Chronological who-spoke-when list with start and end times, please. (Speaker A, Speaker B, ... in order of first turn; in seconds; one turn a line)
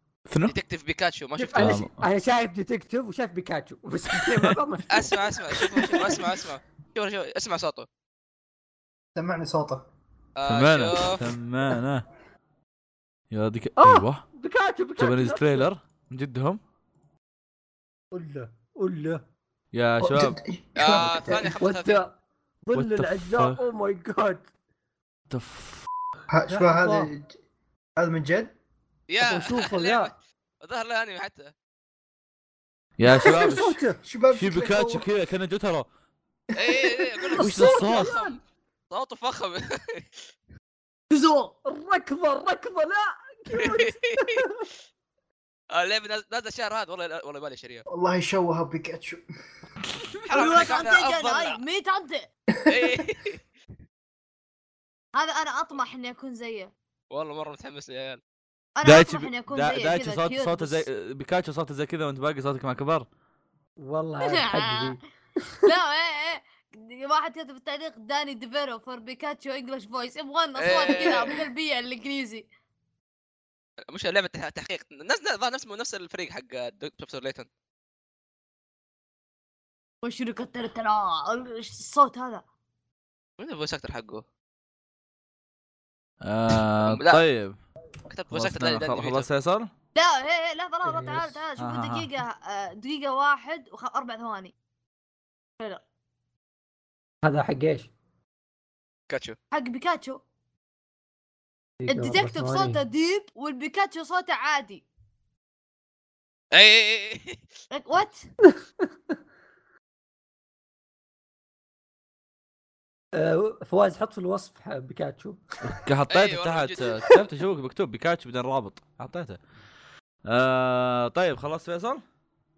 Speaker A: 0.3-0.5
Speaker B: 0.5-1.8
Speaker C: 1.4-6.2
Speaker A: 1.5-2.0
Speaker A: 4.1-4.5
Speaker B: 4.9-7.8
Speaker D: 9.1-9.8
Speaker B: 10.3-11.2
Speaker A: 10.4-12.0
Speaker A: 13.3-14.2
Speaker C: 13.8-15.7
Speaker A: 15.0-16.6
Speaker C: 18.1-19.2
Speaker A: 19.7-20.4
Speaker D: 20.0-21.4
Speaker B: 20.8-22.0
Speaker C: 21.4-24.5
Speaker A: 22.7-23.6
Speaker A: 25.3-25.9
Speaker D: 26.3-27.3
Speaker C: 26.5-27.1
Speaker D: 28.0-28.5
Speaker B: 29.1-31.5
Speaker C: 29.2-30.1
Speaker A: 33.0-33.8
Speaker C: 33.1-34.0
Speaker D: 34.0-35.0
Speaker A: 34.3-35.9
Speaker D: 36.5-37.2
Speaker B: 36.5-38.4
Speaker C: 37.3-38.4
Speaker A: 37.4-38.2
Speaker B: 38.9-40.2
Speaker C: 41.3-44.7
Speaker B: 43.5-44.4
Speaker B: 45.7-47.8
Speaker D: 47.9-49.2
Speaker B: 50.2-51.6
Speaker E: 50.3-52.3
Speaker D: 52.5-53.0
Speaker B: 52.7-53.4
Speaker E: 55.1-56.7
Speaker B: 57.1-58.2
Speaker E: 58.8-60.9
Speaker A: 58.8-63.0
Speaker C: 63.8-65.7
Speaker E: 64.2-64.9
Speaker E: 65.6-72.5
Speaker B: 70.5-71.3
Speaker B: 73.9-77.5
Speaker E: 80.0-82.4
Speaker B: 83.4-84.2
Speaker A: 86.2-87.6
Speaker B: 86.9-87.2
Speaker B: 88.1-89.3
Speaker A: 88.3-89.7
Speaker E: 89.9-94.5
Speaker C: 90.8-91.4
Speaker A: 91.6-92.1
Speaker C: 97.2-97.9
Speaker B: 99.1-99.4
Speaker E: 99.5-100.2
Speaker C: 101.8-102.8
Speaker E: 101.9-104.8
Speaker B: 106.5-107.4
Speaker E: 107.7-108.3
Speaker C: 108.4-108.9
Speaker C: 113.1-115.4
Speaker A: 115.6-119.4
Speaker B: 116.1-117.0
Speaker A: 120.2-122.0